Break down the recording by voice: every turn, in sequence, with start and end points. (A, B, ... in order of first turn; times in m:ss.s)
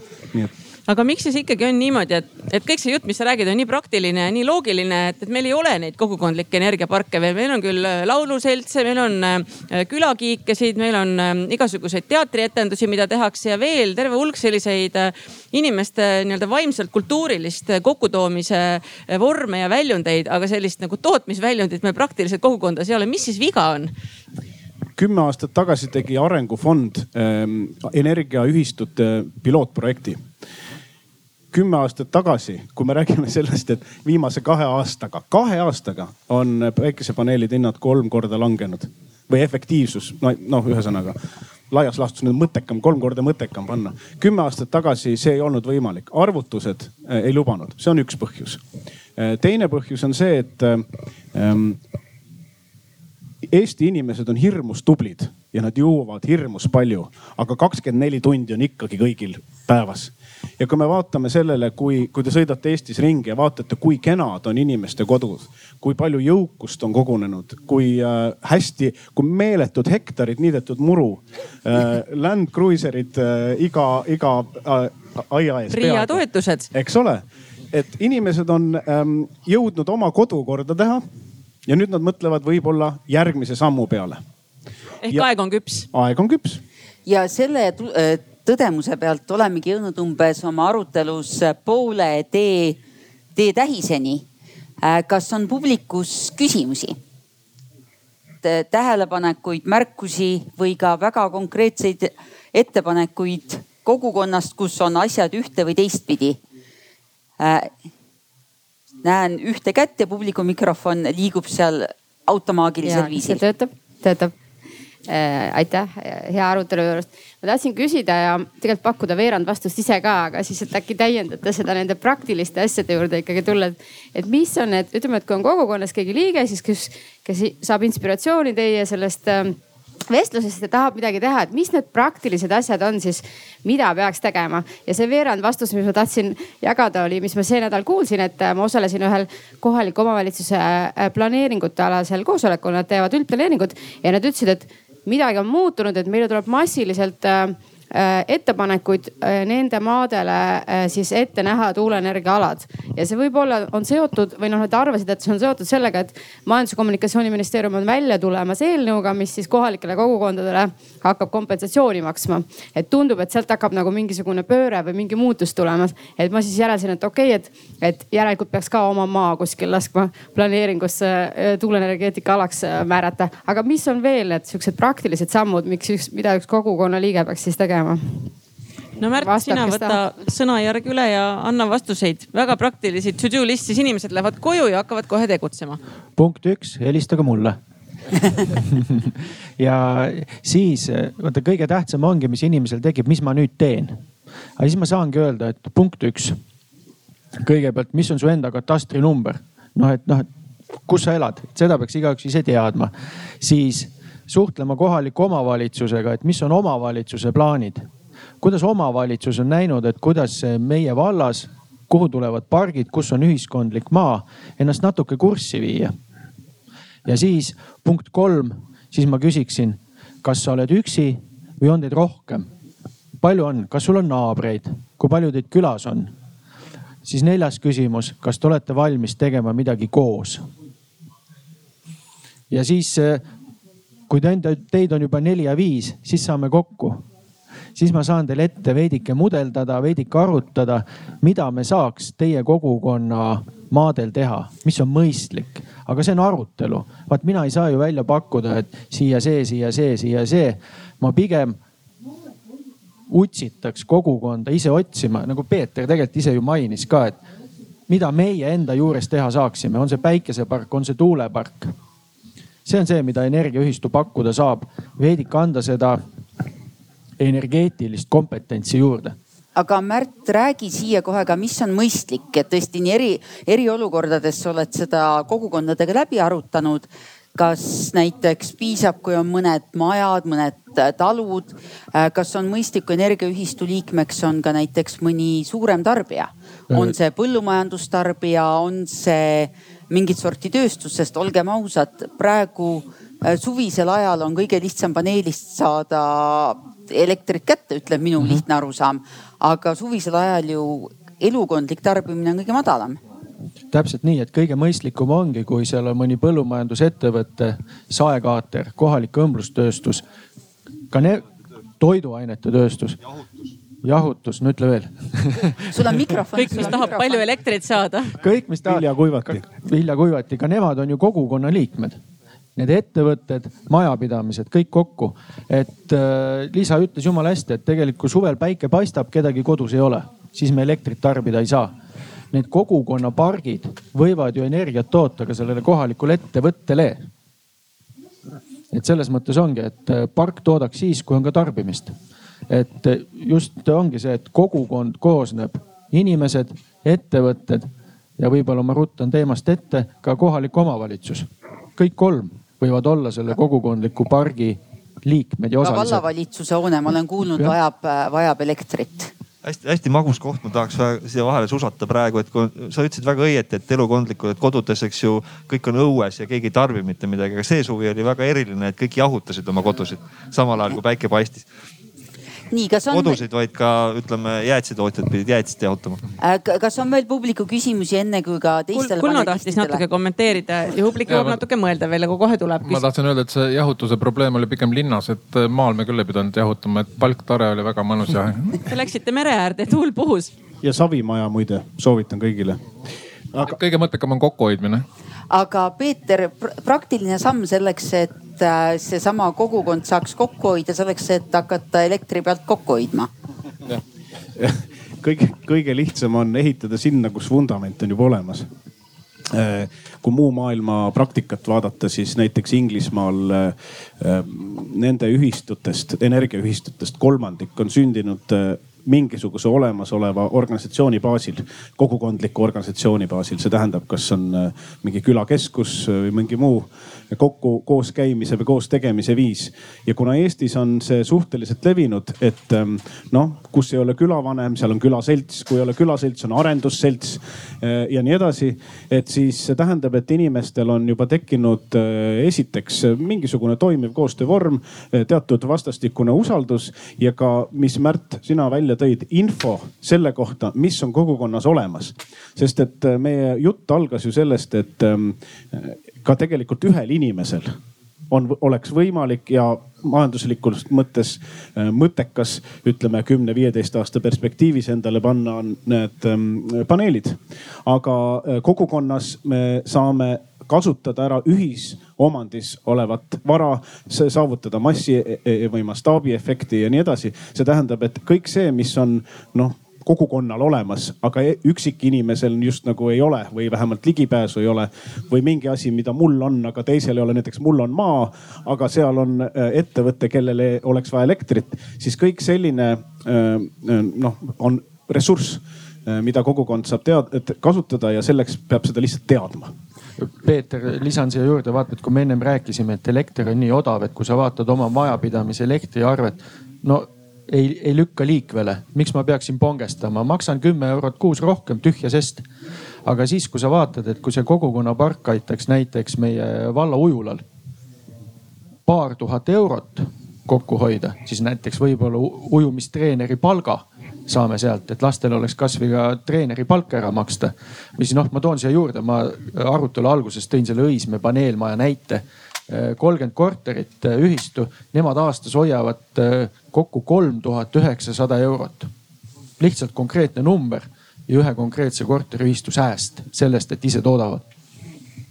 0:00.9-0:23.9 A
0:25.0-0:30.2 B
0:31.5-0:41.2 B
0:41.7-0:48.6 B
0:49.2-0:51.8 B
0:53.5-1:16.2 B
1:15.7-1:16.7 A
1:16.7-1:21.0 B
1:21.7-1:24.2 B
1:25.0-1:25.9 A
1:25.9-1:26.6 B
1:27.1-1:32.8 C
1:33.4-1:34.3 C
1:34.8-1:37.0 C
1:38.4-1:46.4 C
1:47.4-1:47.7 C
1:49.0-1:53.4 C
1:52.8-1:54.3 D
1:55.1-2:09.6 D
2:10.1-2:58.3 D
2:59.0-3:05.8 A
2:59.2-3:00.0 D
3:06.2-3:07.6 E
3:08.4-3:14.0 E
3:14.6-3:16.4 E
3:17.4-3:20.3 E
3:20.9-3:27.9 E
3:28.4-3:36.0 E
3:37.1-3:42.5 E
3:43.2-3:46.2 E
3:47.0-3:50.5 E
3:52.5-3:53.2 E
3:54.1-3:57.0 E
3:57.8-4:11.6 E
4:13.1-4:17.2 E
4:17.9-4:21.8 E
4:22.7-4:26.0 E
4:27.2-4:29.2 E
4:29.6-5:03.0 C
4:46.7-4:47.0 E
5:03.7-5:10.0 E
5:10.9-5:11.3 E
5:11.8-5:13.0 E
5:13.8-5:15.6 E
5:15.7-5:17.3 C
5:16.3-5:18.2 A
5:18.2-5:22.0 E
5:18.6-5:19.5 B
5:22.6-5:31.7 E
5:32.3-5:37.1 E
5:38.7-5:42.0 E
5:42.5-5:56.0 E
5:55.6-5:59.1 C
5:59.4-6:11.5 F
6:12.5-6:13.2 C
6:12.9-6:16.1 F
6:16.2-6:19.8 C
6:18.7-6:22.8 A
6:21.1-6:21.4 G
6:22.6-6:28.6 G
6:28.7-6:30.3 A
6:30.6-6:32.6 B
6:33.4-6:34.8 G
6:35.3-6:43.1 C
6:44.4-6:48.5 B
6:49.3-7:37.6 B
7:38.1-8:19.5 B
8:20.0-8:32.2 E
8:32.8-8:37.2 E
8:38.7-8:58.7 E
8:59.4-9:04.2 E